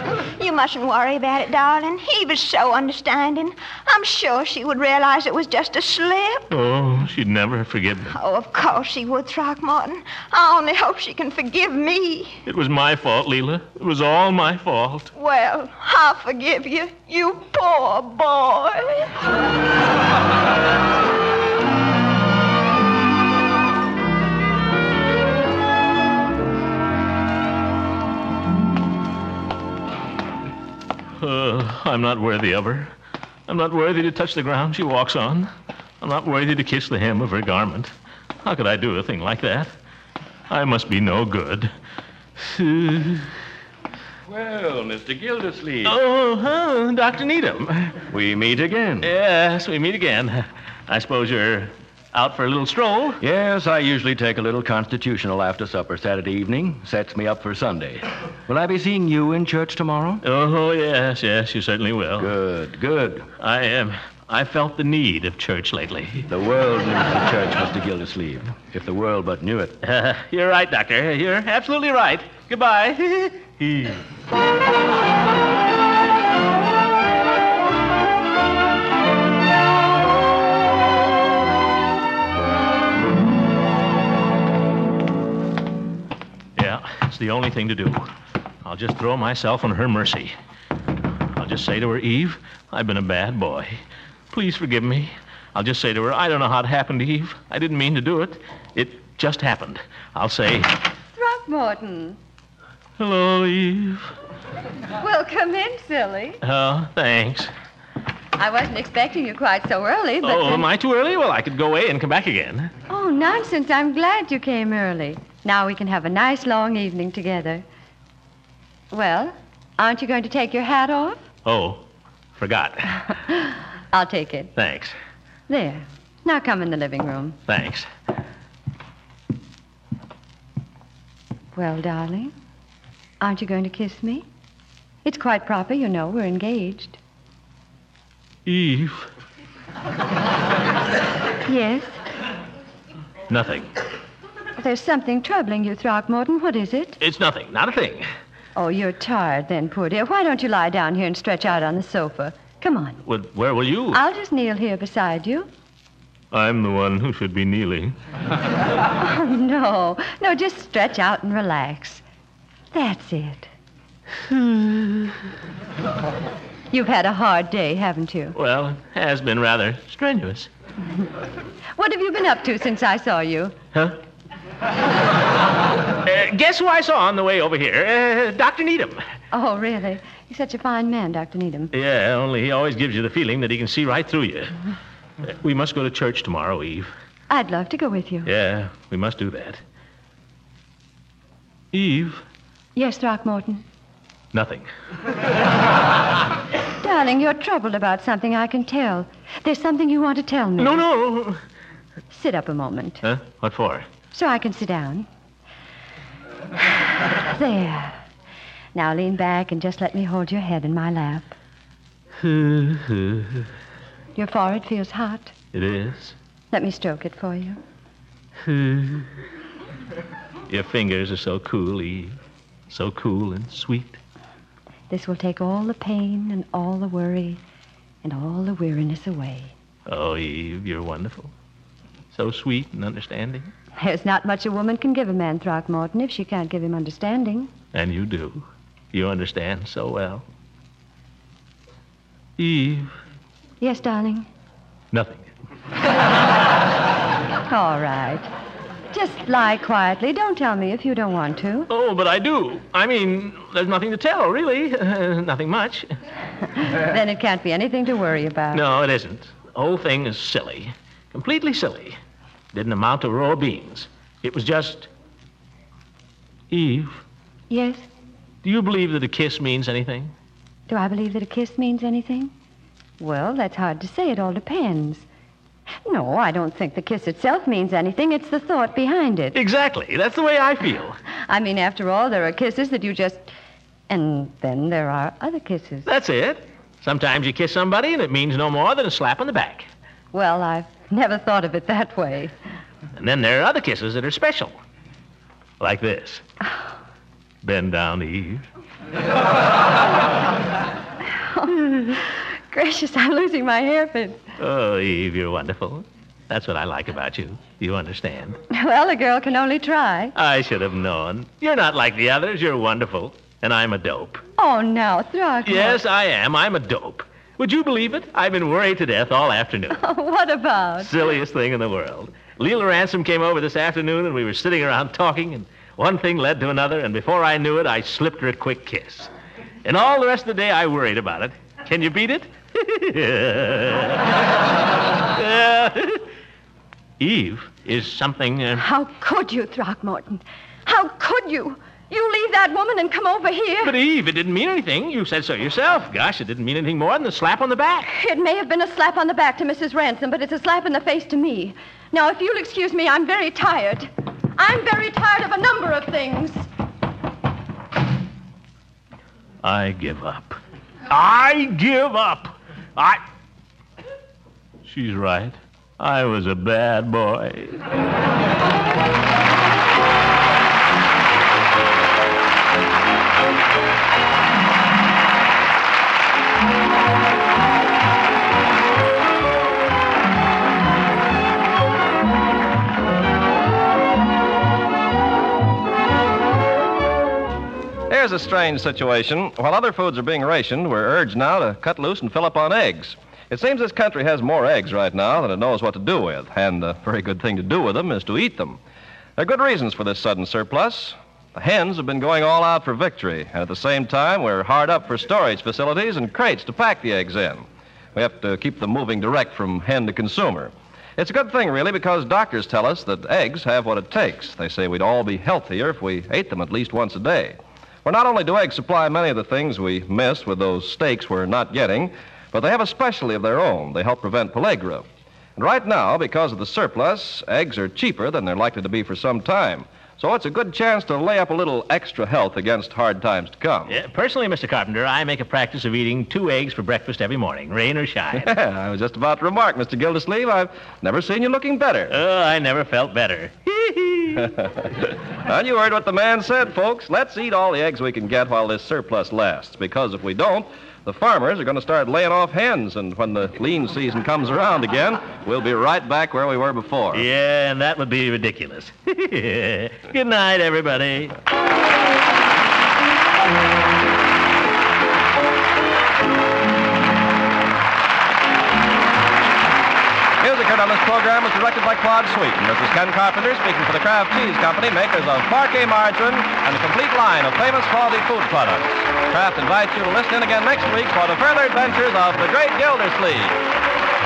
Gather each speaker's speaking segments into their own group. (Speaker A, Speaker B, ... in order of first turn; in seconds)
Speaker A: 0.4-6.5, 8.1-12.4, 15.1-19.1
Speaker B: 6.5-8.2, 12.5-15.1, 31.2-32.9, 33.5-35.5, 36.0-39.7, 40.5-41.7, 42.4-43.3, 45.8-48.0, 49.0-53.2, 60.2-62.3, 63.4-66.3, 69.8-74.0, 86.6-88.1, 88.7-90.3, 91.3-93.8, 94.3-100.8, 103.0-104.1, 106.4-107.5, 110.2-112.7, 121.5-121.8, 122.3-123.0, 124.6-124.9, 127.5-127.9, 138.5-139.1, 143.3-143.7, 147.0-148.1, 153.1-154.0, 156.3-158.0, 164.3-165.1, 168.3-170.5, 176.0-179.0, 181.7-184.5, 185.2-186.9, 188.3-189.6, 191.7-192.2, 194.3-194.7, 200.6-201.4, 203.0-203.9, 212.2-213.5, 215.5-216.2, 218.4-219.1, 220.5-222.2, 222.7-224.0, 229.9-231.3, 232.1-233.5, 237.7-240.2, 242.4-242.9, 244.9-245.3, 251.7-255.9, 258.5-262.0, 262.5-264.9, 266.5-267.0, 268.4-270.1, 279.4-281.0, 285.9-289.7, 293.0-294.6, 295.6-296.2, 297.4-298.5, 304.4-308.4, 310.1-314.2, 315.5-319.8, 320.8-329.1, 329.6-334.0, 335.1-336.1, 337.0-338.6, 343.6-347.9, 359.4-363.0, 364.6-367.6, 433.7-438.3, 441.9-444.3, 456.9-461.2
Speaker C: 44.3-46.0, 48.1-49.1, 53.2-60.2, 62.2-63.3, 66.3-69.7
Speaker D: 101.2-102.2, 105.0-106.4, 108.4-110.7, 112.9-117.7, 118.9-121.2, 123.3-124.5, 125.5-127.4, 131.6-132.3, 133.2-134.2, 135.1-137.0, 141.5-142.0, 144.6-147.0, 148.6-153.0, 153.9-155.5, 159.0-162.0, 162.7-163.5, 166.7-168.4, 171.8-173.6, 179.3-181.7, 187.3-188.3, 192.8-193.6, 196.8-200.8, 202.1-203.0, 204.1-205.1, 207.2-208.0, 208.7-211.4, 214.2-215.3, 216.5-217.6, 224.9-227.4, 228.0-229.5, 233.8-237.5, 243.6-244.3, 247.5-248.3, 248.9-251.7, 256.6-258.6, 267.5-267.9, 270.7-272.3, 273.0-275.1, 275.9-279.4, 281.3-283.3, 283.9-285.9, 290.1-292.3, 301.1-304.2, 308.5-310.1, 314.4-315.8, 319.7-320.9, 338.6-343.8, 347.9-356.5
Speaker E: 387.9-398.6, 399.2-433.8, 438.2-441.9, 444.2-457.1, 470.2-483.4